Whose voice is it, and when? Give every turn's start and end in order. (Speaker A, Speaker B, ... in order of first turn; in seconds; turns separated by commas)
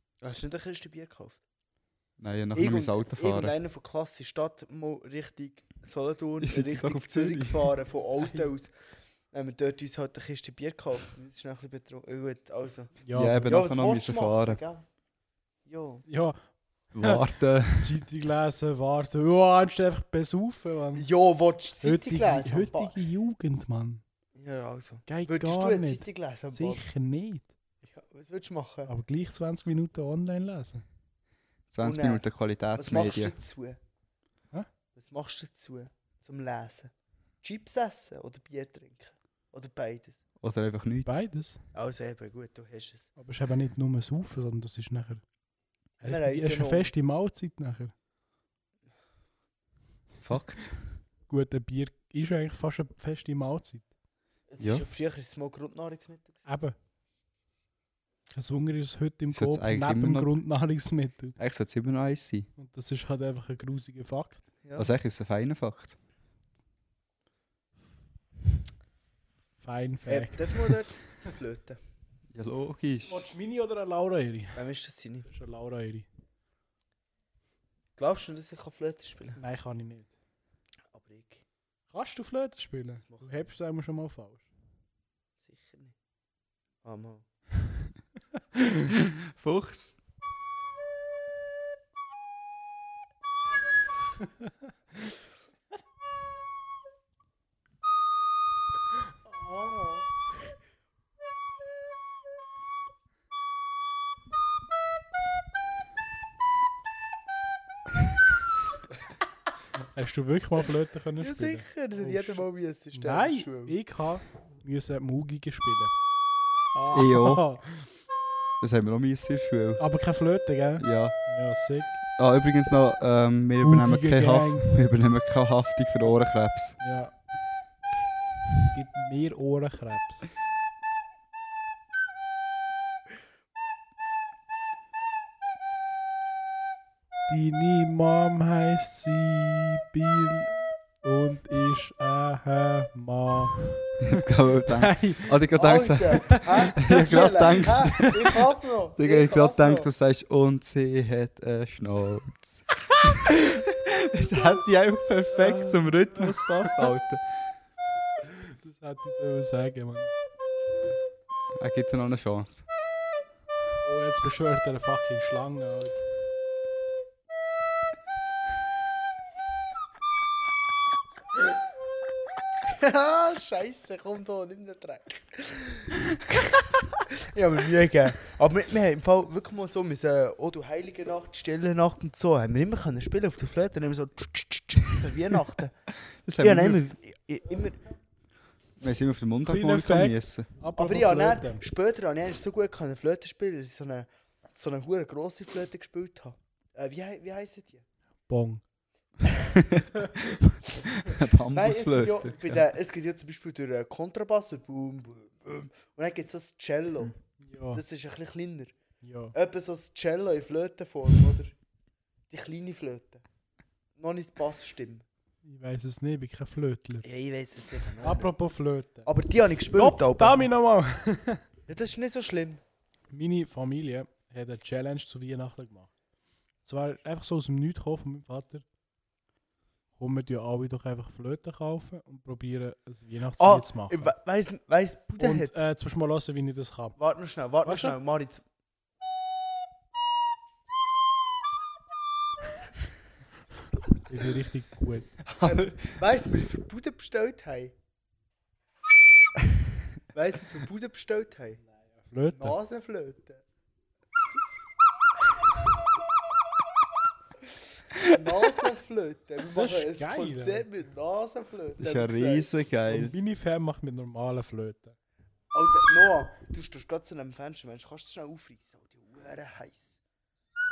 Speaker A: 0.2-1.4, Speaker B: 2.2-3.5, Speaker A: 2.5-8.7, Speaker B: 6.4-7.7, Speaker C: 8.2-8.5, Speaker A: 9.3-14.8, Speaker C: 13.0-13.5, Speaker B: 13.1-14.6, Speaker A: 15.7-16.0, Speaker C: 16.1-16.4, Speaker B: 16.9-18.0, Speaker C: 17.0-17.2, Speaker C: 17.8-21.1, Speaker A: 20.9-23.0, Speaker C: 21.8-24.0, Speaker A: 24.4-26.8, Speaker C: 25.1-27.5, Speaker A: 27.8-28.9, Speaker C: 28.9-30.8, Speaker B: 31.7-33.3, Speaker A: 31.8-32.2, Speaker A: 32.7-33.8, Speaker A: 35.0-36.9, Speaker A: 37.4-40.2, Speaker B: 40.4-41.1, Speaker C: 41.0-41.6, Speaker A: 41.7-43.1, Speaker C: 43.2-45.2, Speaker C: 46.0-47.9, Speaker A: 46.1-46.9, Speaker B: 50.2-51.0, Speaker C: 51.3-53.8, Speaker A: 54.5-56.4, Speaker B: 54.6-54.9, Speaker C: 56.5-56.7, Speaker C: 58.3-61.4, Speaker B: 59.3-60.3, Speaker B: 61.4-62.5, Speaker C: 62.6-64.4, Speaker A: 64.6-64.9, Speaker B: 64.8-66.0, Speaker C: 69.6-70.7, Speaker A: 70.1-71.8, Speaker B: 72.3-73.2, Speaker C: 73.1-74.6, Speaker A: 74.5-75.3, Speaker C: 75.3-76.1, Speaker A: 78.0-79.4, Speaker C: 79.4-80.1, Speaker A: 80.9-81.4, Speaker C: 81.9-84.5, Speaker A: 83.0-83.4, Speaker A: 85.4-85.9, Speaker A: 86.8-87.2, Speaker B: 89.0-90.0, Speaker C: 99.5-100.0, Speaker C: 109.8-115.9, Speaker A: 111.2-113.8, Speaker C: 116.7-117.9, Speaker B: 116.9-117.5, Speaker B: 118.6-119.8, Speaker C: 119.8-122.0, Speaker B: 120.8-121.2, Speaker B: 122.2-126.8, Speaker C: 123.6-124.7, Speaker C: 126.8-127.1, Speaker C: 128.7-130.2, Speaker C: 137.3-143.9, Speaker B: 144.0-148.1, Speaker C: 144.8-145.4, Speaker A: 145.5-149.9, Speaker C: 146.3-146.9, Speaker B: 149.0-157.2, Speaker C: 155.3-156.3, Speaker C: 158.3-160.1, Speaker B: 161.6-162.6, Speaker C: 163.8-166.0, Speaker A: 172.6-185.7, Speaker B: 186.2-186.8, Speaker A: 186.4-187.8, Speaker B: 188.8-190.5, Speaker C: 189.4-191.6, Speaker A: 190.8-197.8, Speaker C: 198.3-198.6, Speaker B: 199.5-202.6, Speaker A: 201.5-207.1, Speaker C: 207.4-207.8, Speaker A: 207.7-208.7, Speaker C: 209.0-209.3, Speaker A: 209.3-211.5, Speaker A: 212.3-213.2, Speaker A: 214.0-215.0, Speaker C: 215.4-217.1, Speaker A: 217.0-218.3, Speaker C: 218.0-219.1, Speaker A: 219.0-220.5, Speaker C: 219.7-221.4, Speaker A: 221.7-222.6, Speaker C: 223.1-225.9, Speaker C: 226.6-228.6, Speaker C: 230.0-234.1, Speaker A: 233.4-235.6, Speaker C: 235.2-237.0, Speaker A: 237.0-238.4, Speaker C: 237.6-237.9, Speaker C: 244.1-245.1, Speaker B: 245.2-245.9, Speaker A: 245.4-247.7, Speaker A: 250.1-251.6, Speaker C: 251.8-252.6, Speaker A: 252.3-253.4, Speaker A: 257.9-262.5, Speaker C: 259.5-260.6, Speaker B: 261.8-263.1, Speaker C: 262.9-264.9, Speaker A: 265.5-270.0